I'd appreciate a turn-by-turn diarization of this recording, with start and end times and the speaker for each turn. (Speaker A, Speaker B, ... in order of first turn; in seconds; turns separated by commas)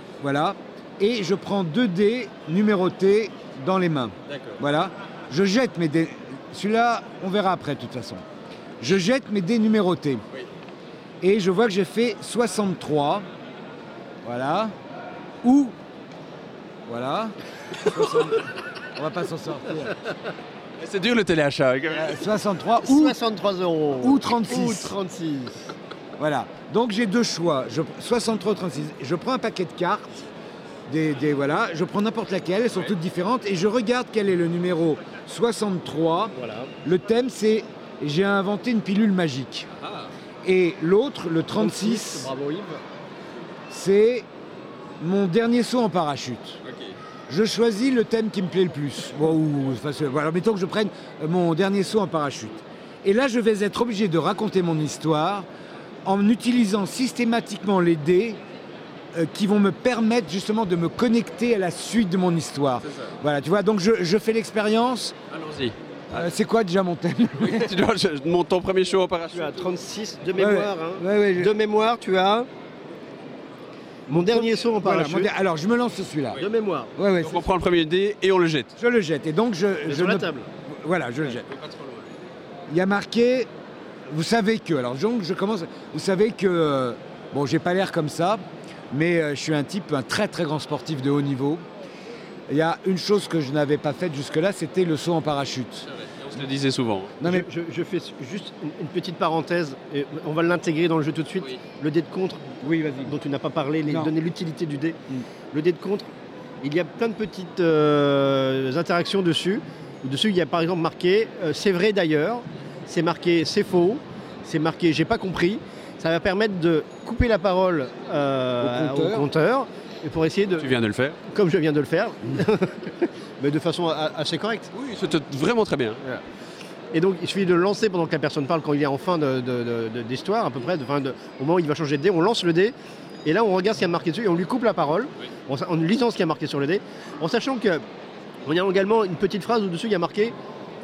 Speaker A: 0.2-8.2, Speaker B: 4.3-4.6, Speaker A: 8.8-10.2, Speaker A: 11.2-13.2, Speaker A: 14.2-14.7, Speaker A: 15.4-15.8, Speaker A: 16.9-20.0, Speaker B: 20.8-22.2, Speaker A: 21.9-23.2, Speaker C: 22.8-25.6, Speaker A: 24.0-25.0, Speaker A: 26.2-30.1, Speaker A: 30.9-36.3, Speaker C: 36.3-36.7, Speaker A: 36.8-39.7, Speaker B: 39.8-40.1, Speaker A: 40.5-42.3, Speaker C: 41.6-42.8, Speaker A: 43.7-44.3, Speaker A: 45.0-46.6, Speaker A: 47.3-55.5, Speaker A: 56.0-58.4, Speaker A: 59.1-65.1, Speaker B: 65.3-66.3, Speaker A: 66.1-67.8, Speaker B: 67.4-69.7, Speaker C: 69.3-72.5, Speaker A: 70.4-71.5, Speaker C: 74.1-75.3, Speaker A: 74.3-76.4, Speaker C: 76.3-76.9, Speaker A: 77.0-77.5, Speaker B: 77.2-78.7, Speaker A: 78.8-81.5, Speaker C: 79.9-80.5, Speaker B: 81.4-82.0, Speaker A: 82.7-83.5, Speaker A: 84.1-91.6, Speaker A: 92.5-95.9, Speaker B: 95.9-97.2, Speaker A: 97.2-97.5, Speaker C: 97.2-102.4, Speaker A: 102.6-103.1, Speaker C: 103.0-105.0, Speaker A: 103.9-104.1, Speaker C: 105.5-106.1, Speaker C: 106.6-120.7, Speaker A: 118.6-119.3, Speaker B: 120.6-121.2, Speaker C: 121.3-124.7, Speaker B: 124.7-126.2, Speaker C: 126.9-132.7, Speaker C: 133.2-137.8, Speaker C: 138.5-140.3